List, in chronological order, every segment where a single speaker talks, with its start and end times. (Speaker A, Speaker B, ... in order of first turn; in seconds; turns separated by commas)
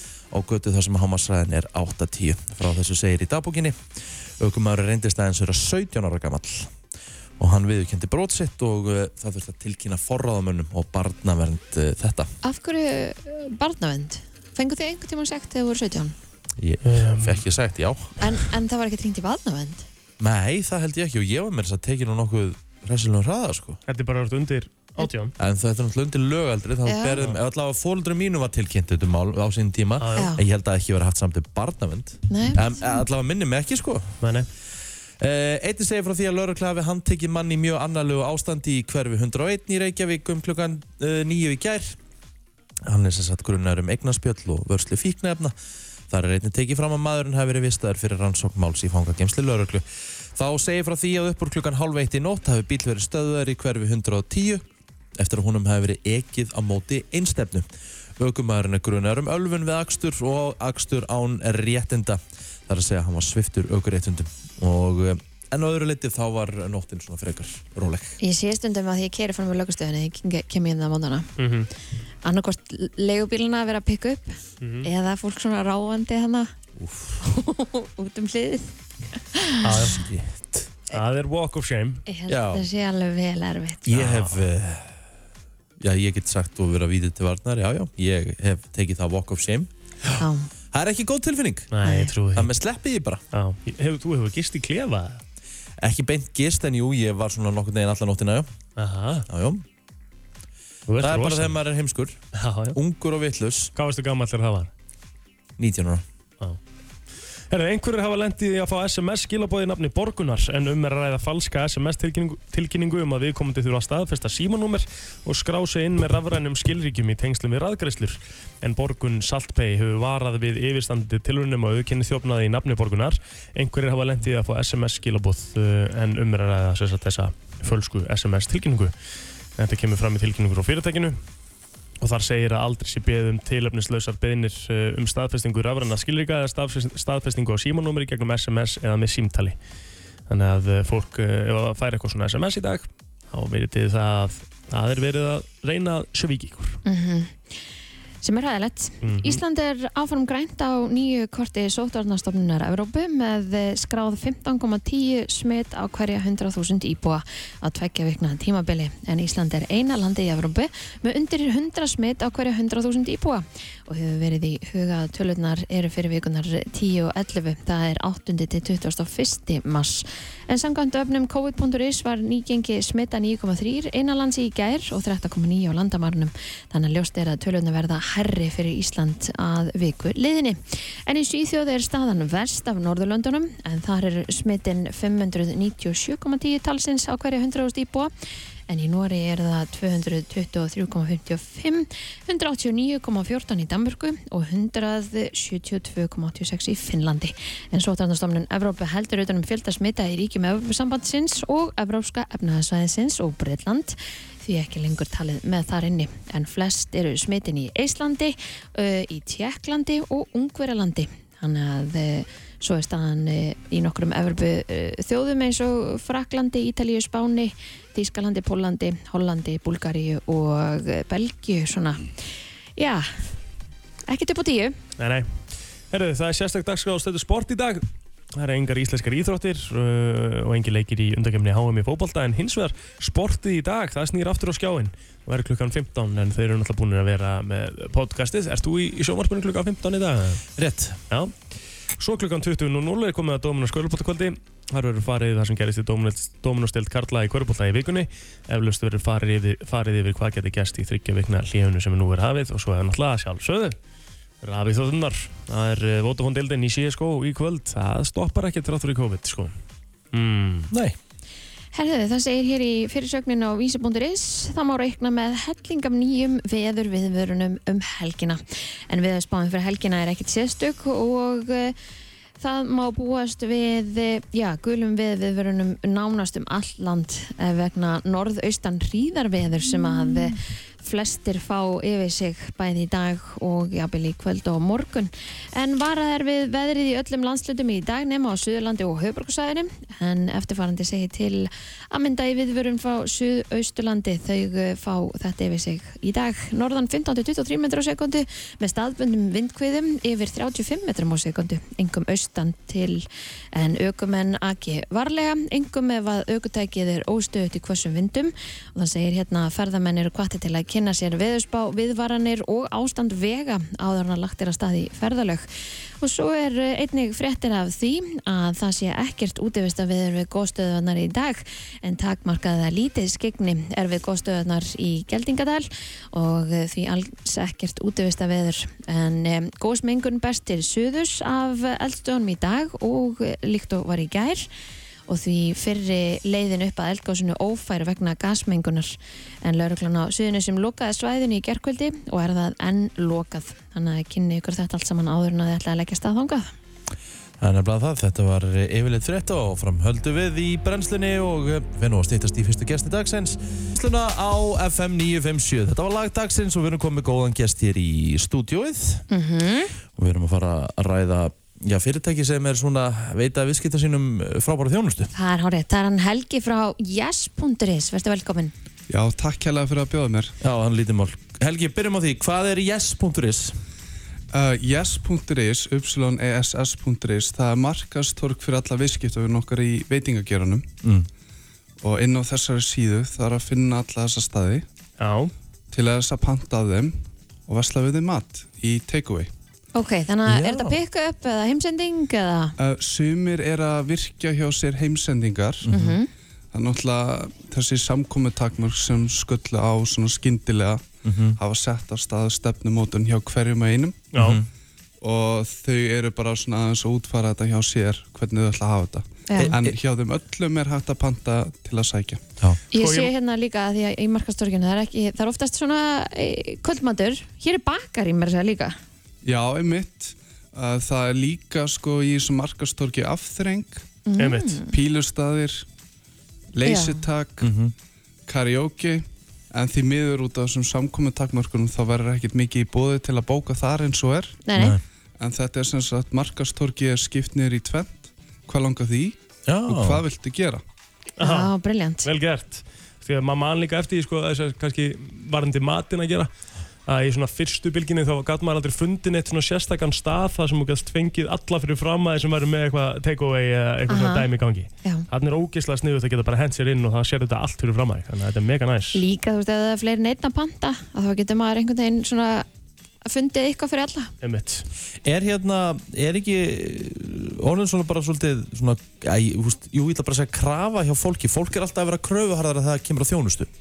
Speaker A: 0.3-3.8, Speaker A: 4.4-6.7, Speaker A: 7.4-12.3, Speaker B: 12.4-16.1, Speaker A: 16.6-18.2, Speaker C: 16.8-17.4, Speaker B: 18.2-19.9, Speaker A: 20.2-23.8, Speaker C: 23.9-25.3, Speaker A: 25.4-34.2, Speaker B: 26.9-27.2, Speaker C: 30.0-30.3, Speaker B: 30.2-30.4, Speaker B: 32.3-33.0, Speaker C: 34.2-34.5, Speaker A: 35.2-42.0, Speaker A: 42.9-45.5, Speaker A: 46.1-54.6, Speaker A: 55.2-57.7, Speaker A: 58.2-68.2, Speaker B: 68.2-71.3, Speaker C: 71.4-71.7, Speaker B: 72.2-76.5, Speaker C: 74.6-74.9, Speaker A: 76.8-77.2, Speaker B: 77.2-78.8, Speaker B: 79.3-80.0, Speaker C: 79.6-80.1, Speaker A: 79.8-80.7, Speaker C: 80.9-82.0, Speaker B: 82.1-84.0, Speaker A: 82.3-82.7, Speaker A: 83.9-85.0, Speaker C: 84.0-84.4, Speaker A: 85.8-89.7, Speaker B: 90.2-90.5, Speaker A: 90.7-91.7, Speaker C: 91.7-92.5, Speaker B: 91.8-92.1, Speaker A: 92.3-93.2, Speaker C: 93.3-95.2, Speaker A: 95.8-98.5, Speaker C: 98.8-99.3, Speaker A: 99.3-99.6, Speaker C: 100.9-101.6, Speaker A: 101.0-103.7, Speaker C: 102.3-102.8, Speaker C: 103.8-104.7, Speaker A: 105.6-106.0, Speaker C: 107.5-128.9, Speaker C: 129.6-131.2, Speaker C: 132.0-139.6, Speaker C: 140.3-146.8, Speaker B: 146.9-147.4, Speaker B: 148.2-188.1, Speaker C: 149.0-149.4, Speaker B: 188.7-222.1, Speaker B: 222.8-223.2, Speaker B: 224.1-224.8, Speaker C: 225.0-225.3, Speaker C: 225.9-240.5, Speaker A: 240.6-241.0, Speaker C: 242.0-253.8, Speaker C: 254.4-259.5, Speaker C: 260.1-260.7, Speaker A: 260.7-261.0, Speaker B: 261.7-271.8, Speaker B: 272.4-315.5, Speaker B: 316.0-334.5, Speaker B: 335.1-346.5, Speaker A: 347.4-359.1, Speaker B: 359.1-359.8, Speaker A: 360.0-365.1, Speaker B: 365.1-368.5, Speaker D: 368.9-370.4, Speaker A: 370.4-373.6, Speaker D: 374.3-380.7, Speaker A: 380.8-381.1, Speaker D: 381.8-384.6, Speaker C: 385.0-385.3, Speaker D: 385.7-386.9, Speaker D: 387.5-389.3, Speaker B: 389.7-392.6, Speaker A: 390.3-390.8, Speaker D: 392.6-395.7, Speaker A: 395.6-396.0, Speaker B: 395.7-396.1, Speaker D: 396.5-400.9, Speaker A: 401.1-401.4, Speaker D: 401.4-404.1, Speaker C: 404.1-404.4, Speaker A: 404.2-404.5, Speaker D: 405.0-412.2, Speaker B: 409.3-409.6, Speaker A: 409.4-409.8, Speaker B: 412.7-418.8, Speaker C: 412.8-413.1, Speaker D: 419.2-423.9, Speaker B: 424.1-424.7, Speaker C: 424.2-424.6, Speaker D: 424.7-425.6, Speaker D: 426.5-427.5, Speaker B: 426.6-427.0, Speaker A: 427.4-427.7, Speaker D: 428.3-434.4, Speaker B: 434.4-434.8, Speaker A: 434.6-434.8, Speaker D: 435.2-439.2, Speaker A: 439.5-440.0, Speaker D: 439.7-440.6, Speaker B: 441.2-442.1, Speaker C: 441.2-441.5, Speaker C: 442.0-446.3, Speaker C: 446.9-459.0, Speaker B: 453.9-454.3, Speaker B: 458.9-462.5, Speaker B: 463.1-464.1, Speaker C: 464.2-464.7, Speaker A: 465.1-473.5